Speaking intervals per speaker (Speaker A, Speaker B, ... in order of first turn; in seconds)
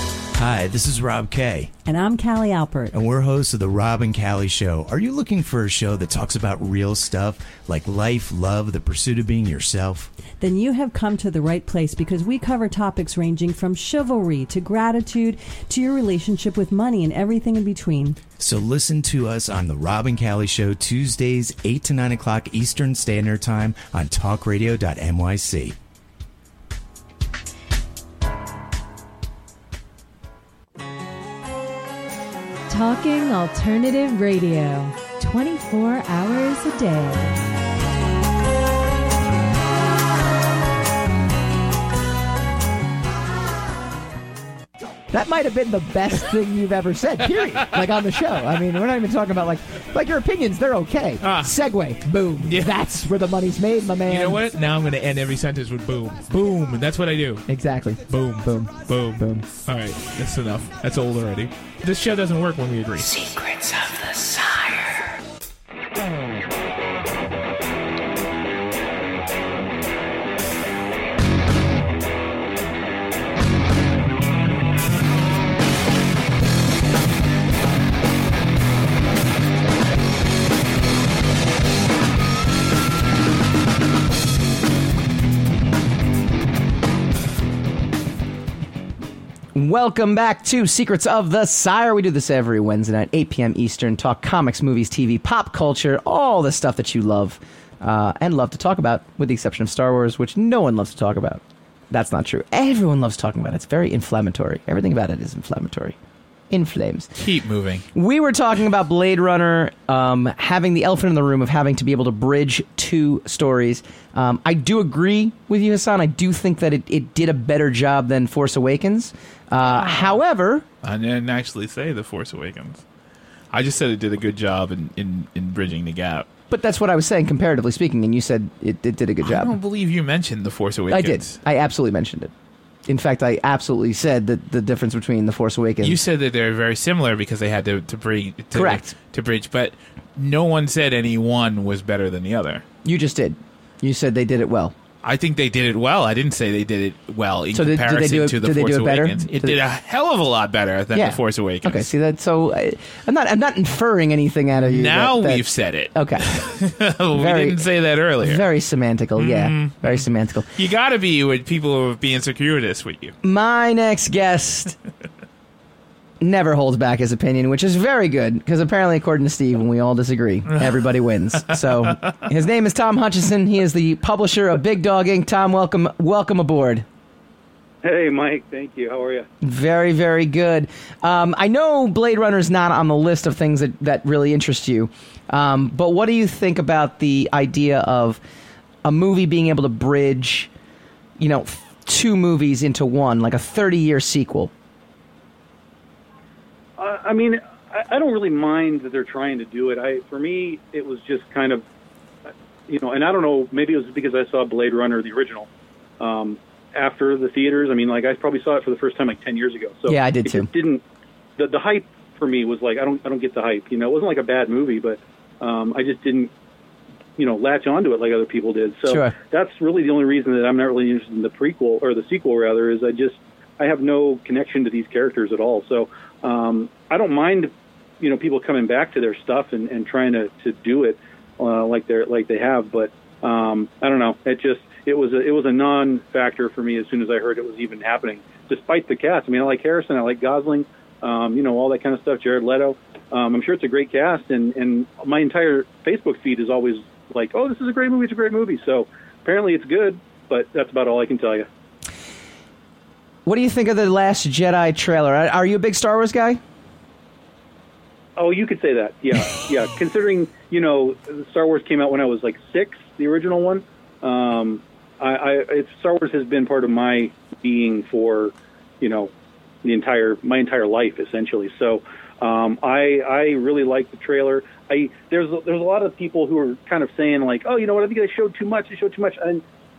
Speaker A: 0.4-1.7, 2.9-10.1, 18.4-25.8
Speaker B: 1.9-2.9, 10.4-18.2
Speaker C: 32.7-37.3
Speaker D: 45.1-54.4, 57.5-58.0, 59.2-59.5, 89.5-106.0, 106.5-107.1, 107.9-120.7, 126.5-129.6, 130.9-132.3, 132.9-136.0, 138.5-138.9, 142.8-144.7, 147.5-149.6, 150.9-156.3, 157.1-157.6, 158.2-160.5, 163.2-164.8, 166.2-176.9, 179.4-188.2, 188.8-190.5, 191.2-194.5, 209.9-210.5, 218.9-219.1, 253.3-256.4
Speaker E: 51.2-51.5, 52.4-52.8, 54.1-57.4, 58.1-63.1, 107.2-107.8, 119.7-120.1, 120.8-122.8, 123.5-126.3, 129.2-131.4, 135.8-142.6, 145.0-151.9, 154.6-158.4, 159.2-163.2
Speaker F: 63.0-65.1
Speaker G: 177.8-179.3, 196.8-201.7, 202.7-205.5, 206.0-210.8, 211.4-216.3, 217.2-251.5, 258.2-269.1, 269.6-279.4